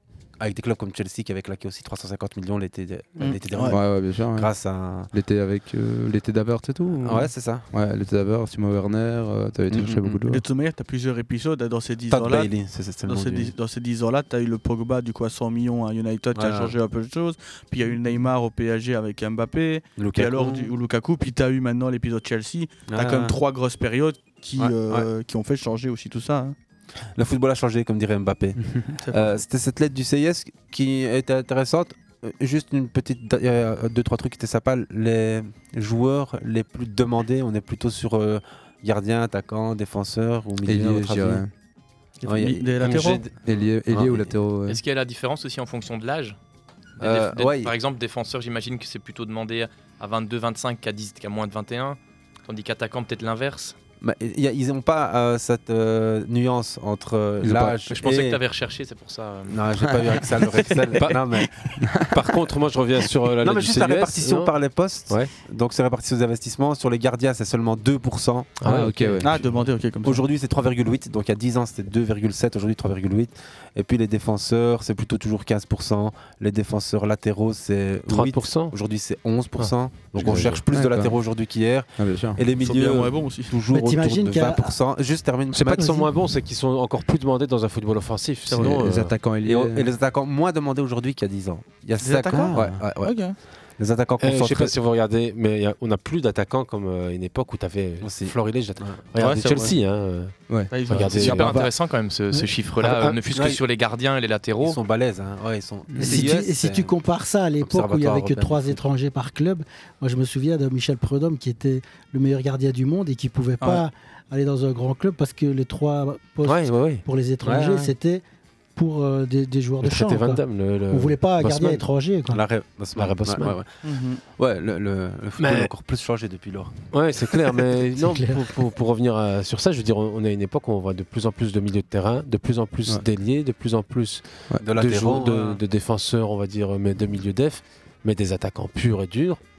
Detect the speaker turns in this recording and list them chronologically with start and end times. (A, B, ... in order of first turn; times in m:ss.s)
0:00.4-0:03.8 A
0:03.2-0:03.8 B
0:03.7-0:04.5 C
0:04.3-0:05.1 A
0:05.1-0:10.4 C
0:07.0-0:07.7 A
0:09.7-0:10.2 A
0:10.3-0:12.5 B
0:12.1-0:13.5 A
0:13.0-0:26.6 B
0:16.3-0:16.8 A
0:20.0-0:20.7 A
0:22.9-0:23.4 A
0:24.6-0:25.1 A
0:27.2-0:28.6 A
0:29.0-0:29.4 B
0:29.1-0:41.4 A
0:40.6-0:41.5 C
0:42.2-0:43.2 B
0:42.2-0:44.3 A
0:43.4-0:44.8 C
0:44.7-0:46.4 D
0:47.0-0:47.8 A
0:47.0-0:53.8 D
0:54.0-0:58.4 A
0:57.4-0:57.8 C
0:57.9-0:59.6 D
0:59.5-1:01.5 A
1:01.8-1:02.3 C
1:02.1-1:04.5 E
1:03.4-1:08.7 A
1:05.1-1:05.3 E
1:08.6-1:09.3 E
1:08.6-1:09.3 C
1:09.2-1:10.2 B
1:10.0-1:26.1 A
1:18.1-1:18.8 E
1:19.6-1:20.6 E
1:20.2-1:21.2 C
1:22.0-1:22.4 C
1:22.6-1:23.5 B
1:23.7-1:24.8 F
1:25.5-1:29.1 E
1:25.7-1:26.1 F
1:28.5-1:28.8 B
1:28.6-1:29.9 C
1:29.4-1:33.2 A
1:32.0-1:33.4 B
1:32.5-1:32.8 C
1:33.8-1:34.8 A
1:34.2-1:40.3 E
1:38.0-1:39.7 A
1:39.2-1:39.8 B
1:40.7-1:41.5 B
1:40.9-1:41.6 E
1:41.1-1:44.8 D
1:42.8-1:43.2 E
1:43.3-1:43.6 A
1:44.6-1:47.0 A
1:45.9-1:46.3 C
1:46.0-1:58.2 F
1:47.6-1:48.8 A
1:56.4-1:57.0 E
1:57.4-1:57.9 A
1:58.8-2:02.4 F
1:59.8-2:01.8 E
2:02.3-2:03.7 A
2:03.0-2:03.6 E
2:03.8-2:04.2 B
2:04.4-2:06.9 A
2:05.4-2:05.7 E
2:06.9-2:14.2 E
2:08.0-2:08.4 F
2:14.6-2:15.6 A
2:14.7-2:19.4 E